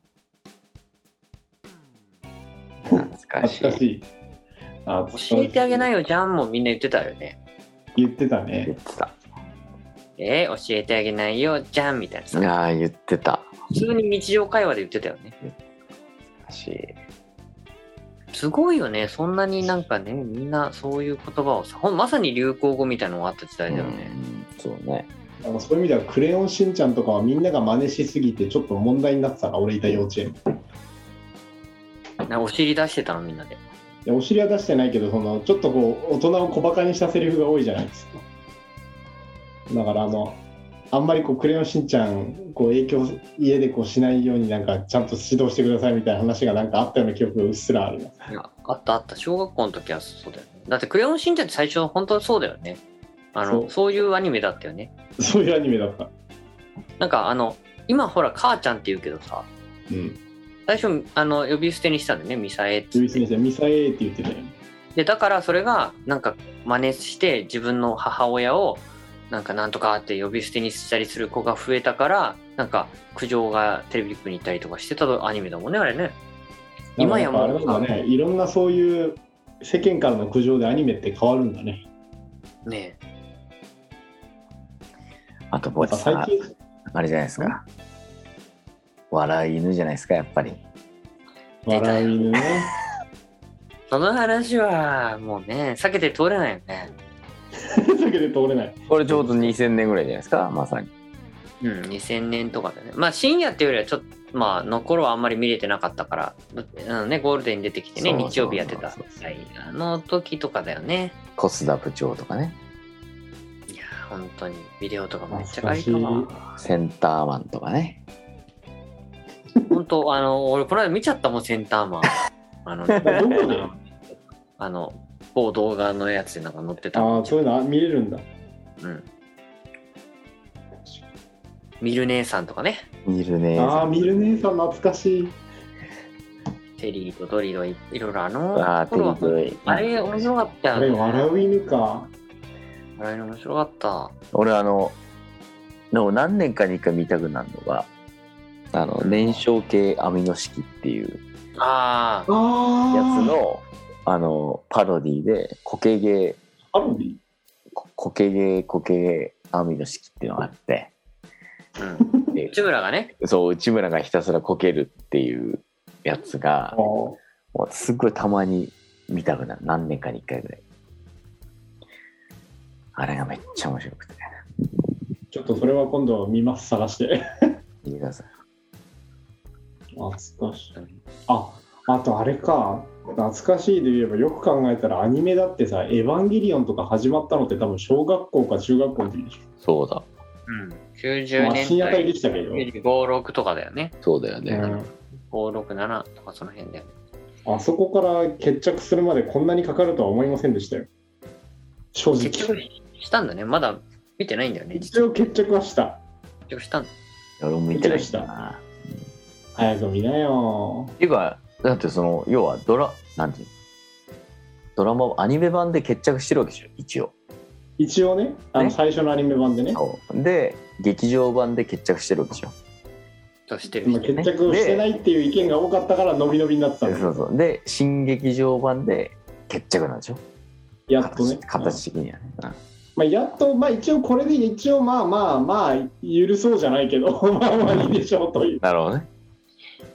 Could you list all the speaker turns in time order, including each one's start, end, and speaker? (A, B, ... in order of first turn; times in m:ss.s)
0:02.9-0:04.1 A
0:02.9-0:03.8 B
0:04.8-0:05.9 A
0:05.1-0:07.4 C
0:07.9-0:08.7 A
0:08.6-0:09.1 B
0:10.2-0:12.5 C
0:12.3-0:13.5 B
0:13.7-0:15.3 C
0:16.3-0:16.9 B
0:18.3-0:24.1 C
0:23.7-0:25.1 B
0:25.4-0:30.4 A
0:32.3-0:33.6 C
0:34.0-0:38.2 A
0:39.7-0:40.4 A
0:40.9-0:48.3 A
0:48.3-0:52.8 C
0:53.3-0:54.9 C
0:53.4-0:53.7 A
0:55.2-0:56.1 A
0:57.0-0:59.5 C
0:59.9-1:00.2 A
1:00.7-1:03.2 C
1:02.9-1:04.5 A
1:04.9-1:16.2 C
1:17.0-1:18.1 C
1:17.0-1:21.8 A
1:22.6-1:23.0 C
1:25.5-1:26.3 B
1:25.8-1:26.5 A
1:26.9-1:27.6 B
1:29.1-1:30.6 B
1:31.6-1:32.7 A
1:31.7-1:32.2 C
1:33.9-1:36.9 C
1:37.8-1:39.6 A
1:38.9-1:40.9 B
1:41.6-1:51.2 C
1:47.9-1:49.2 B
1:51.4-1:52.6 B
1:53.7-1:56.5 C
1:55.3-1:56.3 A
1:56.6-1:58.0 B
1:59.7-2:02.1 C
2:02.6-2:03.5 C
2:03.0-2:03.7 A
2:04.6-2:07.4 C
2:06.9-2:08.2 A
2:08.8-2:09.1 C
2:11.8-2:12.8 C
2:13.0-2:14.1 B
2:13.6-2:15.4 A
2:16.8-2:21.3 C
2:18.5-2:20.3 B
2:20.7-2:22.1 A
2:23.0-2:24.1 C
2:24.3-2:25.0 B
2:25.9-2:27.9 B
2:28.7-2:31.2 B
2:29.0-2:29.4 C
2:31.6-2:32.3 C
2:32.3-2:33.4 A
2:32.9-2:36.4 B
2:36.7-2:37.2 A
2:37.7-2:40.9 B
2:41.8-2:43.1 C
2:42.1-2:42.3 A
2:42.3-2:42.6 B
2:43.2-2:46.8 B
2:46.7-2:47.2 A
2:47.5-2:50.6 B
2:52.9-2:54.2 B
2:55.3-2:57.2 A
2:57.8-2:58.3 B
2:59.9-3:00.7 A
3:00.7-3:01.0 C
3:01.3-3:09.4 A
3:09.6-3:10.0 B
3:10.5-3:13.9 C
3:11.4-3:12.6 A
3:14.0-3:14.8 B
3:14.5-3:14.9 A
3:15.3-3:16.9 C
3:17.4-3:20.9 A
3:21.9-3:22.6 A
3:22.1-3:25.0 C
3:24.7-3:26.0 A
3:26.5-3:26.9 C
3:27.4-3:28.6 B
3:27.7-3:28.3 A
3:29.6-3:30.9 A
3:31.0-3:33.5 B
3:34.8-3:37.1 B
3:37.8-3:39.8 A
3:39.7-3:42.5 B
3:43.5-3:44.2 C
3:43.8-3:47.2 A
3:44.1-3:44.9 B
3:46.8-3:50.2 B
3:50.9-3:51.8 A
3:51.0-3:52.6 B
3:53.0-3:58.6 A
3:58.6-3:59.1 B